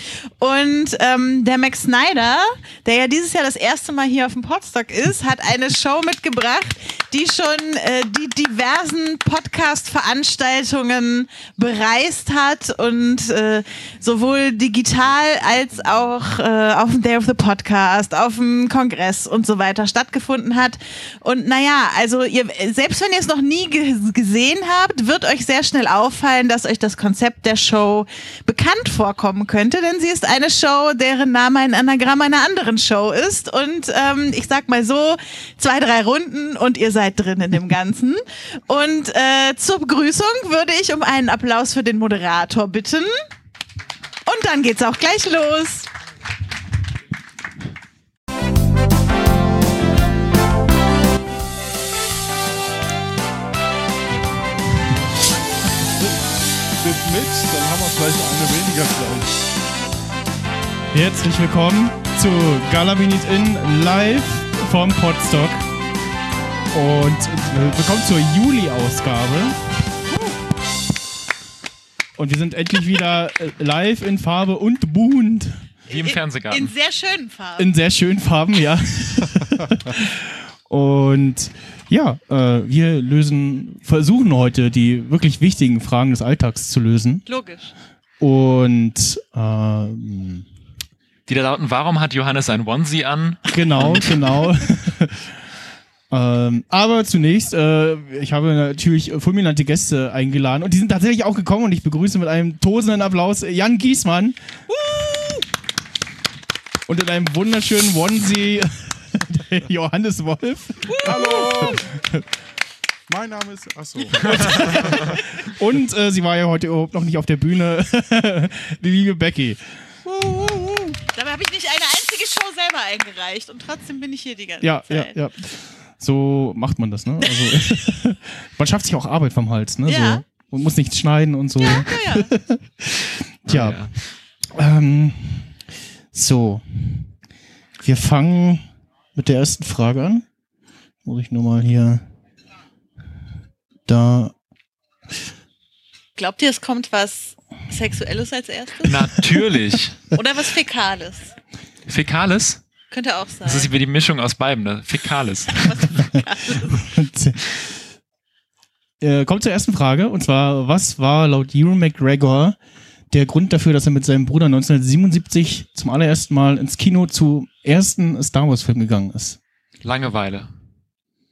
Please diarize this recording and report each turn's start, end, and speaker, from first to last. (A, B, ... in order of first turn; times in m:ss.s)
0:00.4-0:43.1 A
0:15.0-0:16.1 B
0:44.3-0:45.9 A
0:56.8-0:59.3 B
1:00.9-1:05.7 C
1:06.7-1:09.6 C
1:12.2-1:15.6 C
1:15.9-1:16.7 D
1:15.9-1:17.7 A
1:17.6-1:27.2 C
1:27.3-1:27.7 A
1:28.2-1:30.5 C
1:31.3-1:34.4 D
1:33.5-1:35.3 C
1:36.1-1:44.4 C
1:44.7-1:45.4 A
1:46.9-1:52.2 C
1:50.9-1:51.8 A
1:51.0-1:51.8 B
1:53.1-1:55.2 B
1:54.3-1:59.8 C
2:00.4-2:00.8 C
2:01.0-2:05.2 A
2:04.6-2:13.9 C
2:07.2-2:07.5 A
2:09.9-2:10.2 A
2:11.6-2:12.3 A
2:13.5-2:13.9 D
2:14.5-2:15.5 C
2:16.1-2:17.1 C
2:17.8-2:18.6 C
2:19.2-2:20.2 C
2:21.0-2:22.0 C
2:23.9-2:24.3 C
2:26.2-2:29.0 A
2:28.8-2:30.0 D
2:30.1-2:31.3 A
2:31.9-2:32.6 D
2:32.9-2:33.7 A
2:33.4-2:35.6 D
2:35.6-2:36.8 A
2:36.8-2:37.4 C
2:39.0-2:42.6 C
2:43.1-2:49.4 C
2:49.8-2:50.5 D